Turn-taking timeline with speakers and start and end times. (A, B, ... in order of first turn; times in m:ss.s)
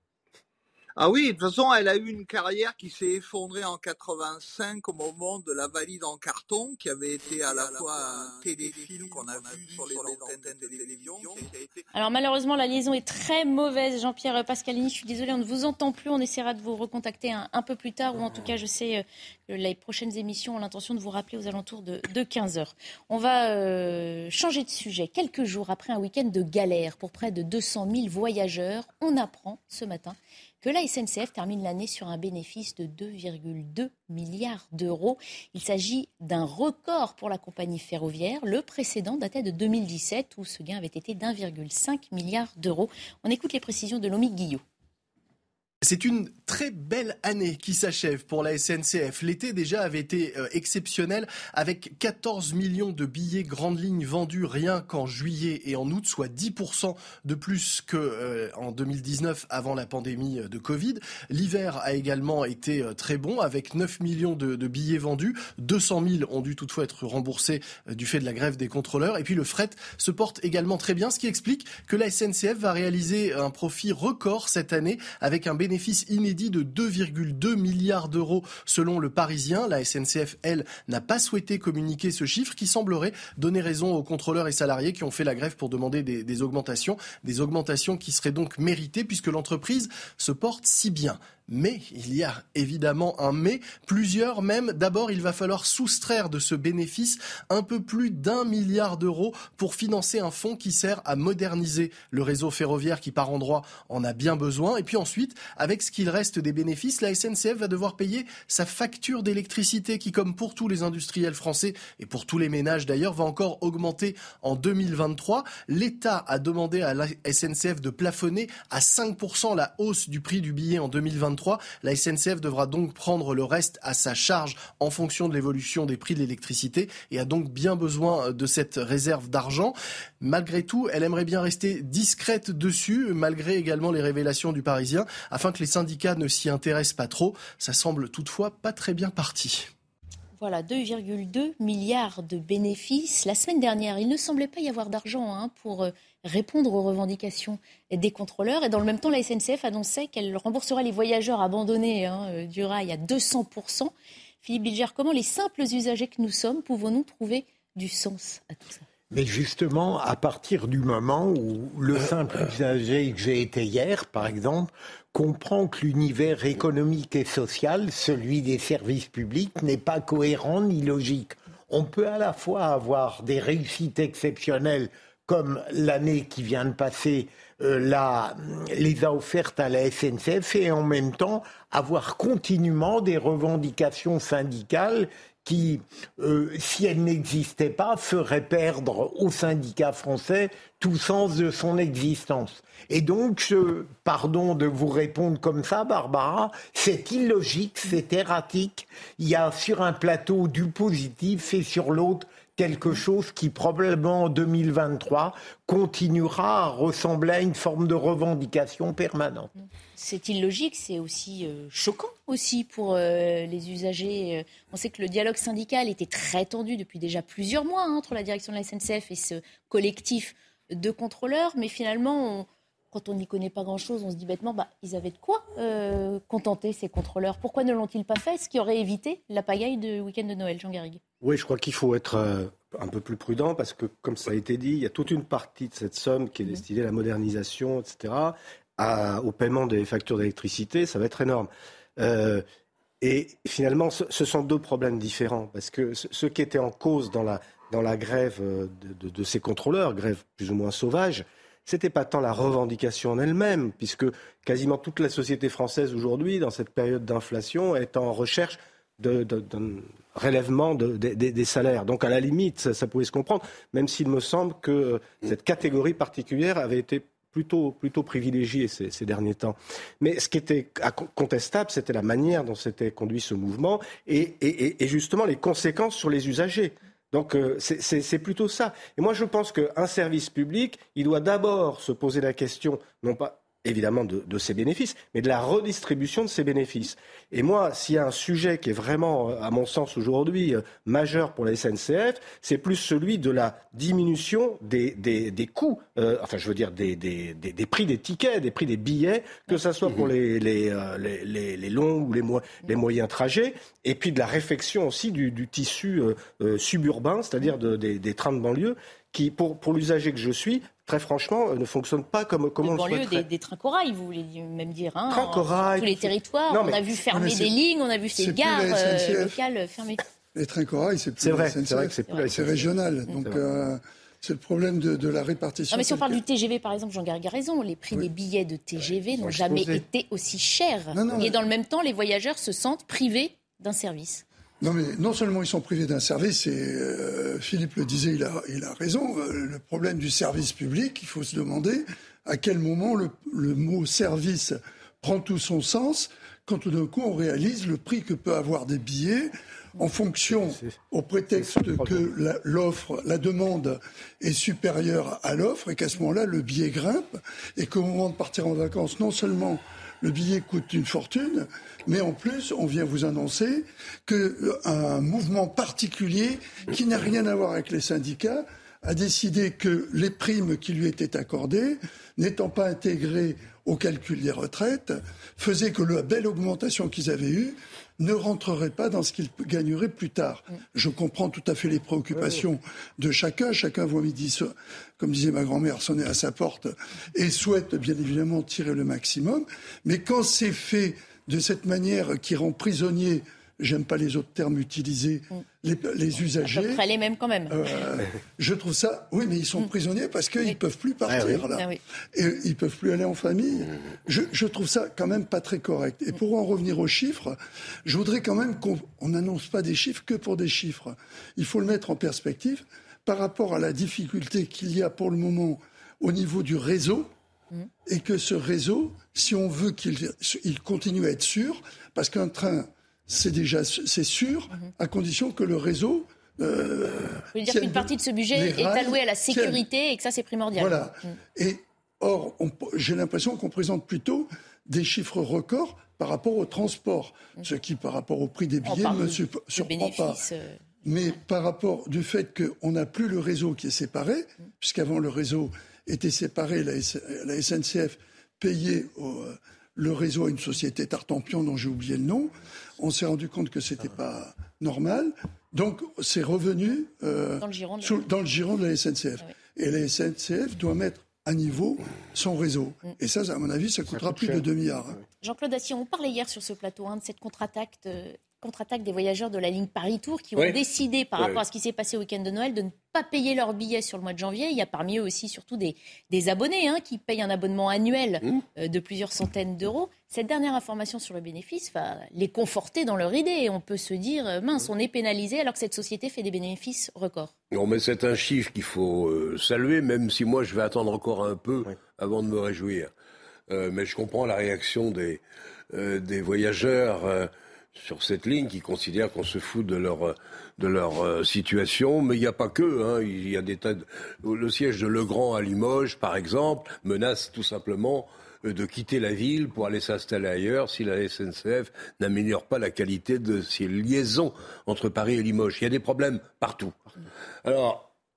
0:01.0-0:11.8 A
0:11.9-0:44.6 B
0:45.8-2:19.7 C
2:20.4-2:38.8 B
2:39.1-3:29.5 D
3:30.0-3:51.0 B
3:51.2-4:02.4 E
4:03.0-5:13.2 E
5:12.6-5:20.0 B
5:15.1-5:16.8 E
5:17.1-5:17.5 F
5:18.2-5:19.4 F
5:20.3-5:26.2 F
5:21.2-5:23.4 E
5:25.7-5:34.2 B
5:29.2-5:29.8 E
5:30.9-5:31.4 F
5:34.6-6:36.8 F
5:50.4-5:50.8 E
5:51.4-5:52.1 E
6:36.4-6:37.6 B
6:37.5-6:57.1 F
6:41.1-6:41.4 E
6:41.5-6:41.8 B
6:57.8-7:09.6 F
7:07.3-7:11.2 B
7:10.6-7:20.2 F
7:18.6-7:20.6 B
7:20.8-7:45.0 F
7:37.4-7:38.0 B
7:43.9-7:44.4 E
7:45.2-8:07.3 B
8:07.5-8:12.9 G
8:13.5-8:15.2 G
8:15.7-8:36.9 G
8:37.4-8:37.9 G